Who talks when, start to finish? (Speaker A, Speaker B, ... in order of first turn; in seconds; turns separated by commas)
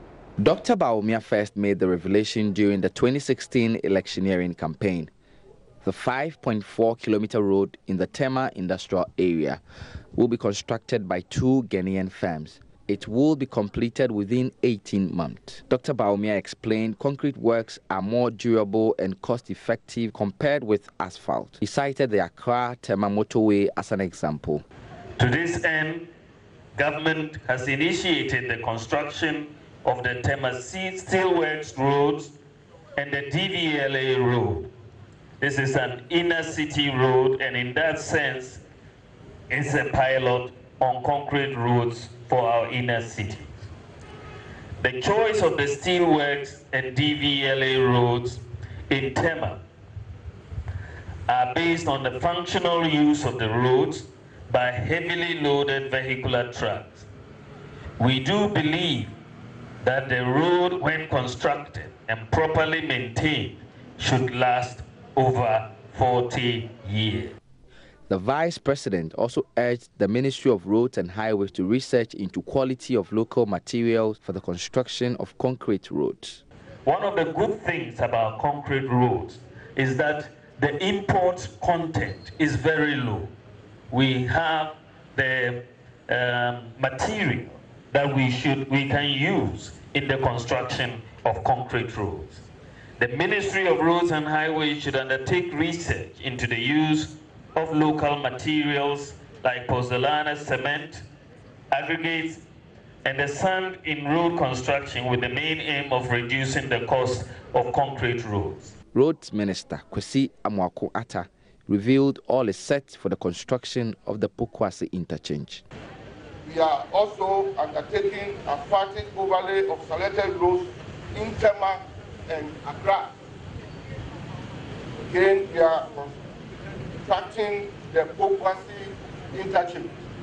Speaker A: 0.4-5.1, Speaker A: 5.8-9.6, Speaker A: 10.1-24.6, Speaker B: 25.2-26.1, Speaker B: 26.8-32.3, Speaker B: 33.0-34.7, Speaker B: 35.4-38.6, Speaker B: 39.5-43.5, Speaker B: 44.8-49.6, Speaker B: 51.3-57.1, Speaker B: 58.0-59.1, Speaker B: 59.8-67.3, Speaker A: 68.1-76.4, Speaker B: 76.8-83.3, Speaker B: 83.9-92.4, Speaker B: 93.0-101.0, Speaker B: 101.7-102.4, Speaker B: 103.0-108.7, Speaker A: 108.9-115.6, Speaker C: 116.4-123.1, Speaker C: 125.0-126.2, Speaker C: 127.0-129.9